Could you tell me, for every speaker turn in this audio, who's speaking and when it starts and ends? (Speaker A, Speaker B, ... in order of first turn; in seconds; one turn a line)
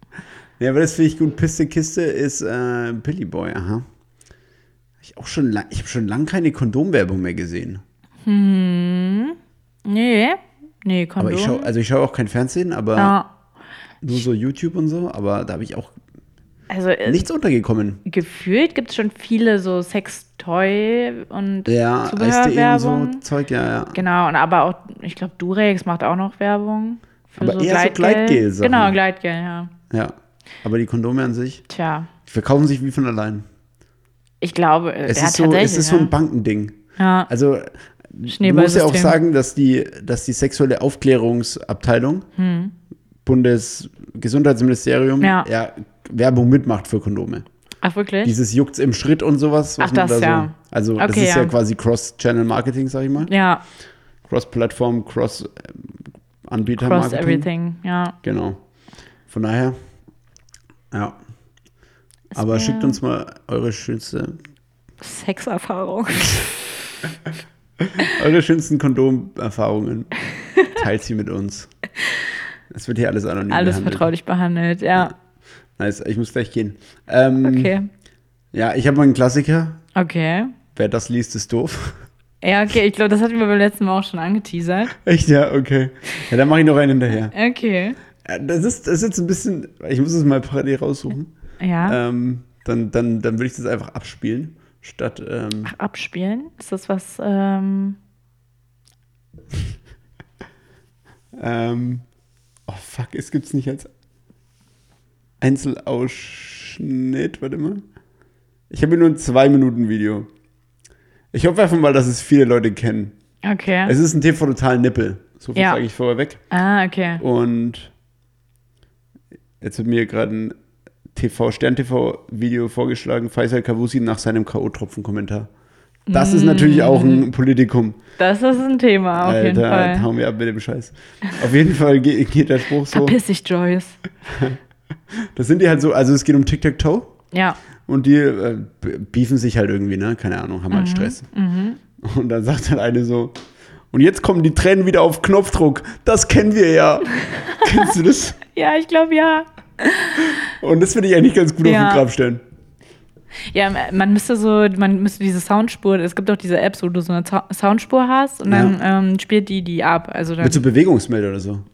Speaker A: 0.6-3.9
Speaker A: 5.0-7.8
Speaker B: 8.2-11.7
Speaker A: 11.2-13.2
Speaker B: 13.0-13.3
Speaker A: 14.0-15.9
Speaker B: 16.7-17.3
Speaker A: 17.1-18.0
Speaker B: 18.1-23.2
Speaker A: 21.7-24.0
Speaker B: 23.9-29.7
Speaker A: 27.4-29.0
Speaker A: 29.9-31.6
Speaker B: 31.7-32.1
Speaker A: 32.3-33.5
Speaker B: 34.4-36.1
Speaker A: 35.1-36.8
Speaker B: 37.0-37.3
Speaker A: 37.3-42.3
Speaker B: 38.3-39.2
Speaker B: 42.4-42.7
Speaker A: 43.2-47.5
Speaker B: 45.2-45.5
Speaker B: 47.8-48.4
Speaker A: 48.2-53.3
Speaker B: 49.8-51.5
Speaker B: 53.2-53.6
Speaker A: 54.3-57.5
Speaker B: 56.8-58.2
Speaker A: 58.2-58.6
Speaker A: 59.3-59.8
Speaker A: 60.9-61.2
Speaker B: 62.3-63.0
Speaker A: 62.4-64.3
Speaker B: 65.0-66.5
Speaker A: 67.8-70.1
Speaker A: 70.7-71.7
Speaker A: 72.7-74.1
Speaker B: 73.5-75.1
Speaker A: 75.8-77.8
Speaker B: 77.4-77.9
Speaker A: 78.5-79.8
Speaker B: 80.0-80.5
Speaker A: 80.7-82.0
Speaker B: 82.4-84.9
Speaker A: 85.0-87.3
Speaker B: 87.3-88.0
Speaker A: 88.2-91.3
Speaker B: 91.6-92.0
Speaker A: 91.8-95.7
Speaker B: 95.7-98.0
Speaker A: 101.3-102.0
Speaker A: 102.7-103.9
Speaker A: 105.4-107.8
Speaker A: 108.7-110.3
Speaker A: 111.3-113.2
Speaker B: 113.4-114.0
Speaker A: 113.8-116.4
Speaker B: 116.5-117.2
Speaker A: 117.2-117.9
Speaker A: 119.6-120.5
Speaker A: 121.1-125.5
Speaker B: 126.1-127.3
Speaker A: 126.1-128.0
Speaker B: 128.2-130.1
Speaker A: 129.2-133.2
Speaker B: 132.9-134.0
Speaker A: 134.3-134.6
Speaker A: 135.2-137.1
Speaker B: 137.3-137.6
Speaker A: 137.9-141.2
Speaker B: 140.7-141.8
Speaker A: 142.0-143.4
Speaker A: 143.9-148.4
Speaker B: 147.2-147.9
Speaker B: 148.5-150.4
Speaker A: 150.5-152.4
Speaker B: 151.6-152.0
Speaker B: 153.5-160.6
Speaker A: 158.5-158.8
Speaker A: 160.4-161.7